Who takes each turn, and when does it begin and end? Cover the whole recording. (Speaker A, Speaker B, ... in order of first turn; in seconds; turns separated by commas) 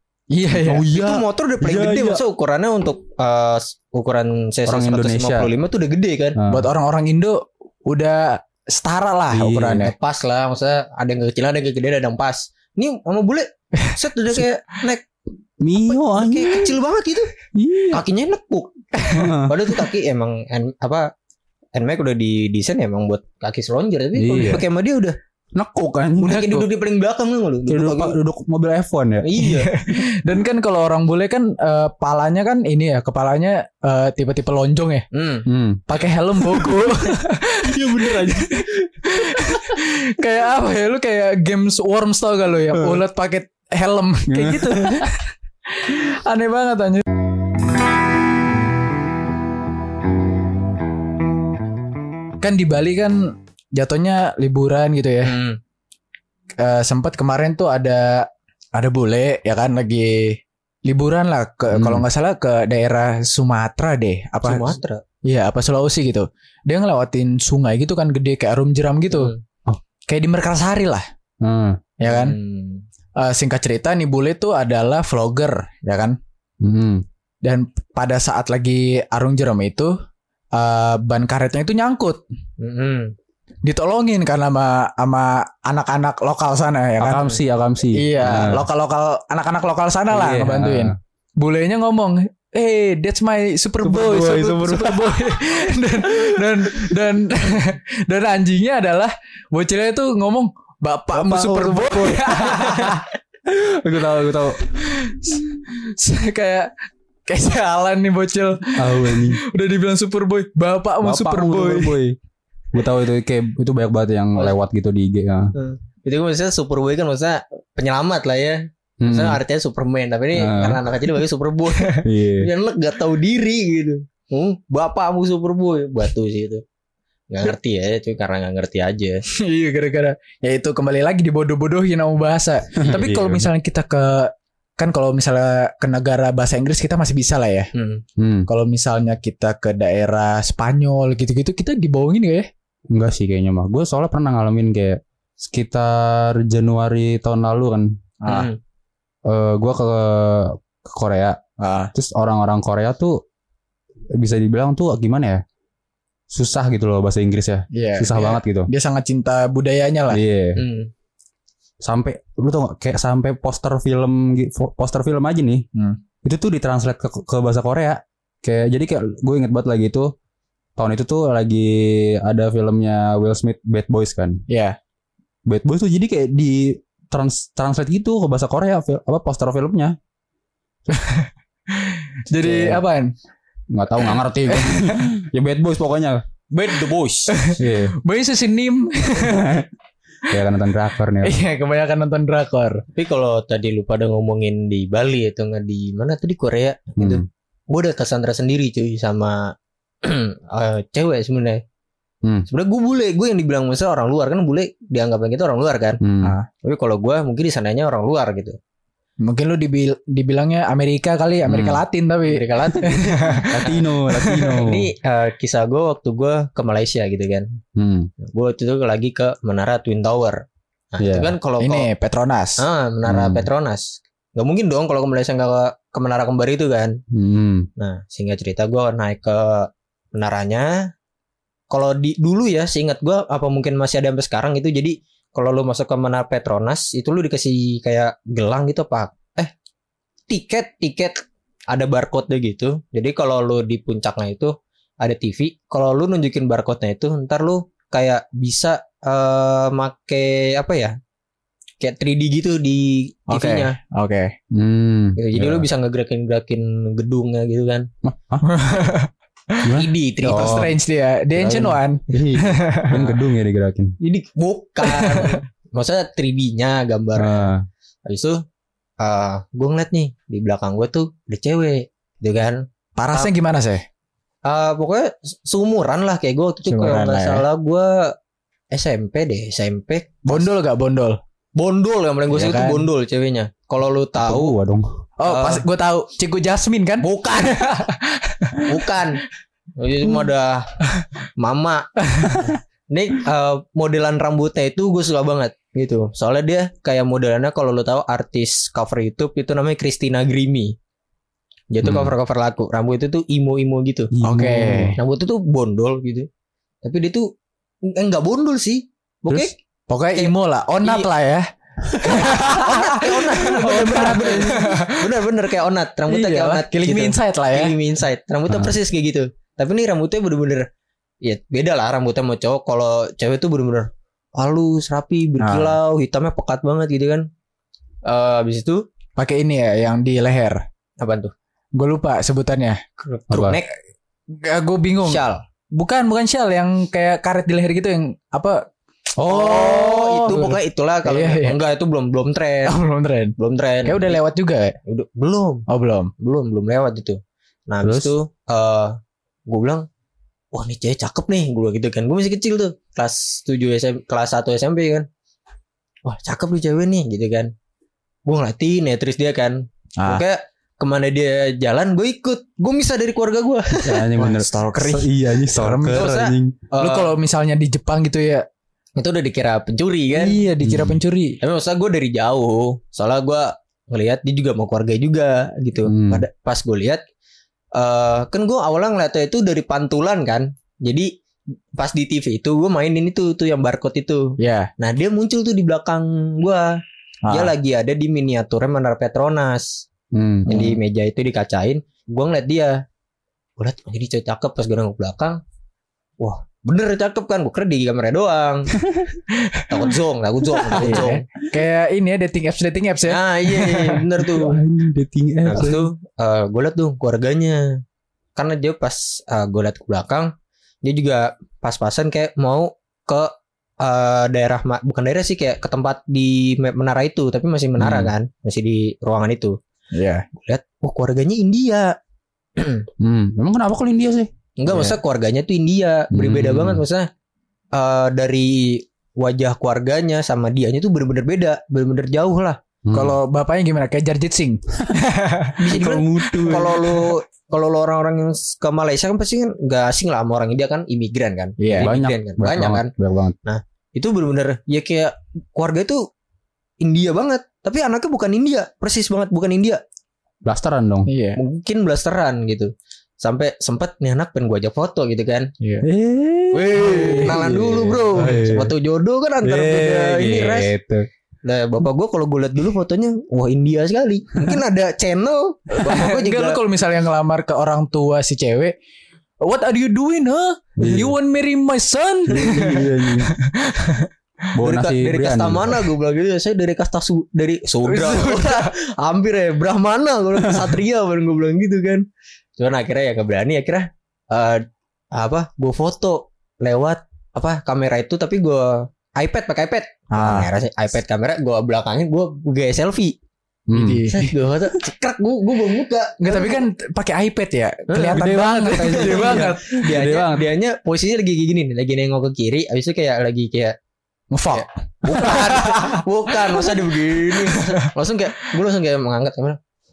Speaker A: 0.3-0.9, Speaker B: 0.6-2.2, Speaker C: 0.8-6.4, Speaker B: 4.7-5.5, Speaker B: 6.4-6.7, Speaker A: 6.5-9.9, Speaker B: 9.3-9.9, Speaker C: 9.8-15.1, Speaker B: 15.6-16.7, Speaker C: 15.9-17.3, Speaker B: 17.5-18.0, Speaker C: 17.9-21.1, Speaker B: 19.1-19.6, Speaker C: 21.7-25.2, Speaker B: 24.1-24.6, Speaker B: 25.6-26.7, Speaker C: 26.2-28.2, Speaker B: 27.7-29.4, Speaker C: 29.2-29.8, Speaker A: 29.4-35.1, Speaker C: 35.1-35.5, Speaker B: 35.5-35.9, Speaker A: 35.9-47.0, Speaker B: 36.4-36.7, Speaker B: 37.6-38.7, Speaker B: 44.3-45.1, Speaker A: 52.4-55.4, Speaker C: 55.2-55.6, Speaker A: 56.6-64.7, Speaker B: 61.7-62.0, Speaker C: 64.4-65.0, Speaker A: 65.2-69.3, Speaker A: 70.1-71.0, Speaker B: 71.4-71.8, Speaker A: 72.0-72.4, Speaker C: 72.0-72.8, Speaker A: 73.2-76.2, Speaker B: 76.6-77.0, Speaker A: 77.4-79.9, Speaker A: 80.5-82.2, Speaker C: 82.6-83.2, Speaker A: 83.7-87.4, Speaker B: 87.0-88.7, Speaker A: 87.9-103.0, Speaker B: 90.1-90.9, Speaker B: 93.8-95.4, Speaker B: 101.1-104.6, Speaker A: 104.8-106.7, Speaker A: 107.3-112.0, Speaker B: 108.8-109.4, Speaker B: 111.0-112.2, Speaker B: 112.7-115.5, Speaker C: 115.6-126.6, Speaker B: 119.0-119.4, Speaker B: 120.3-120.8, Speaker B: 122.0-122.5, Speaker C: 127.3-129.2, Speaker A: 129.3-137.7, Speaker B: 132.8-133.5, Speaker C: 137.7-138.0, Speaker B: 138.2-138.5, Speaker A: 138.5-142.5, Speaker B: 142.9-147.9, Speaker A: 148.2-148.5, Speaker C: 148.3-148.6, Speaker B: 149.3-151.4, Speaker A: 151.6-151.9, Speaker B: 151.9-153.2, Speaker B: 154.2-155.4, Speaker B: 156.3-158.7, Speaker A: 157.7-160.2, Speaker B: 160.1-160.6, Speaker C: 160.6-160.9, Speaker B: 161.8-165.7, Speaker B: 166.2-170.1, Speaker B: 170.8-174.4, Speaker A: 174.5-174.8, Speaker B: 175.5-180.0, Speaker A: 180.9-183.1, Speaker B: 182.4-182.8, Speaker B: 183.7-186.2, Speaker A: 184.5-185.0, Speaker C: 186.5-187.3, Speaker A: 187.3-189.7, Speaker B: 187.6-187.9, Speaker B: 189.2-189.6, Speaker B: 190.3-191.4, Speaker A: 191.2-192.8, Speaker C: 192.9-201.6, Speaker B: 197.0-197.2, Speaker C: 202.5-206.0, Speaker B: 206.0-206.3, Speaker C: 206.6-208.6, Speaker A: 209.2-214.6, Speaker B: 211.5-211.8, Speaker C: 212.2-213.9, Speaker B: 213.5-214.9, Speaker C: 214.5-217.5, Speaker B: 217.8-218.1, Speaker C: 218.2-220.4, Speaker C: 220.9-221.9, Speaker B: 221.0-221.3, Speaker A: 221.6-222.6, Speaker C: 222.6-227.0, Speaker B: 223.1-223.5, Speaker B: 227.1-227.7, Speaker C: 227.8-230.9, Speaker C: 231.7-239.5, Speaker C: 240.3-251.0, Speaker C: 251.8-253.8, Speaker A: 253.3-254.3, Speaker B: 254.5-255.7, Speaker C: 255.2-257.9, Speaker B: 258.0-258.4, Speaker A: 258.4-259.7, Speaker B: 259.6-260.7, Speaker C: 259.8-260.7, Speaker A: 260.2-262.9, Speaker C: 261.4-261.8, Speaker B: 262.1-263.9, Speaker C: 264.0-267.5, Speaker A: 264.8-265.4, Speaker B: 267.2-267.6, Speaker C: 268.1-268.4, Speaker C: 269.0-273.3, Speaker A: 273.0-273.8, Speaker C: 274.4-278.1, Speaker A: 276.7-277.4, Speaker C: 278.7-280.5, Speaker A: 280.3-281.2, Speaker C: 281.6-284.5, Speaker A: 282.3-282.9, Speaker B: 284.2-284.9, Speaker A: 285.2-289.0, Speaker C: 285.3-285.6, Speaker C: 287.0-287.8, Speaker C: 288.6-289.2, Speaker C: 289.8-290.8, Speaker C: 291.4-300.8, Speaker A: 292.1-292.5, Speaker C: 301.7-304.1, Speaker B: 301.8-302.1, Speaker B: 304.1-305.0, Speaker A: 304.2-305.0, Speaker C: 305.0-306.3, Speaker C: 306.8-307.3, Speaker C: 307.9-309.5, Speaker B: 309.3-309.5, Speaker A: 309.9-315.2, Speaker C: 310.2-311.1, Speaker C: 312.0-320.7, Speaker A: 316.1-317.8, Speaker C: 321.2-327.3, Speaker A: 325.4-325.8, Speaker C: 328.1-328.9, Speaker A: 329.2-330.6, Speaker C: 331.0-331.3, Speaker A: 331.8-332.8, Speaker C: 333.0-333.7, Speaker B: 333.3-333.6, Speaker A: 334.3-335.2, Speaker C: 335.1-335.4, Speaker A: 335.8-338.6, Speaker A: 339.2-341.6, Speaker C: 339.3-342.8, Speaker A: 342.7-344.8, Speaker C: 343.4-344.2, Speaker C: 344.9-345.7, Speaker A: 345.7-346.1, Speaker C: 346.2-349.0, Speaker B: 347.8-348.1, Speaker C: 349.5-349.9, Speaker C: 350.5-355.1, Speaker C: 356.1-357.5, Speaker C: 358.3-364.1, Speaker A: 360.0-360.2, Speaker B: 363.8-366.6, Speaker A: 364.2-366.1, Speaker C: 365.9-367.1, Speaker A: 366.8-368.5, Speaker C: 369.0-370.4, Speaker A: 370.1-371.4, Speaker B: 370.6-371.0, Speaker C: 371.4-377.0, Speaker B: 375.9-376.2, Speaker C: 377.7-381.1, Speaker C: 381.8-386.7, Speaker A: 384.4-384.7, Speaker A: 387.2-387.5, Speaker C: 387.3-389.8, Speaker B: 390.1-390.8, Speaker C: 390.5-392.8, Speaker C: 393.6-395.4, Speaker C: 396.2-398.8, Speaker A: 399.4-399.7, Speaker C: 399.7-401.2, Speaker A: 400.7-404.0, Speaker B: 400.8-401.1, Speaker C: 403.1-404.6, Speaker B: 404.2-405.9, Speaker C: 405.4-407.8, Speaker C: 408.4-419.6, Speaker B: 417.8-418.1, Speaker A: 419.9-420.2, Speaker C: 420.3-422.0, Speaker C: 422.6-422.9, Speaker B: 423.0-424.3, Speaker C: 424.6-427.1, Speaker B: 426.1-426.8, Speaker C: 427.7-432.6, Speaker B: 432.9-433.2, Speaker A: 432.9-435.6, Speaker C: 435.6-442.9, Speaker B: 435.7-437.0, Speaker A: 436.4-436.8, Speaker A: 441.6-441.9, Speaker B: 441.8-443.4, Speaker C: 443.4-446.1, Speaker C: 446.8-449.8, Speaker B: 450.4-451.1, Speaker A: 451.1-451.4, Speaker C: 451.4-455.5, Speaker A: 455.6-455.9, Speaker B: 455.8-458.7, Speaker C: 456.5-460.7, Speaker A: 456.8-457.3, Speaker B: 459.4-461.1, Speaker C: 461.4-466.6, Speaker A: 465.7-468.7, Speaker A: 469.4-474.1, Speaker B: 470.8-471.1, Speaker B: 472.3-473.3, Speaker B: 474.6-475.8, Speaker C: 474.6-482.1, Speaker A: 477.9-478.7, Speaker C: 482.6-493.2, Speaker A: 490.1-490.5, Speaker B: 493.7-494.0, Speaker A: 493.7-494.4, Speaker C: 494.1-496.6, Speaker A: 496.2-499.7, Speaker C: 497.9-503.8, Speaker B: 498.0-500.5, Speaker A: 504.3-507.9, Speaker C: 504.5-509.6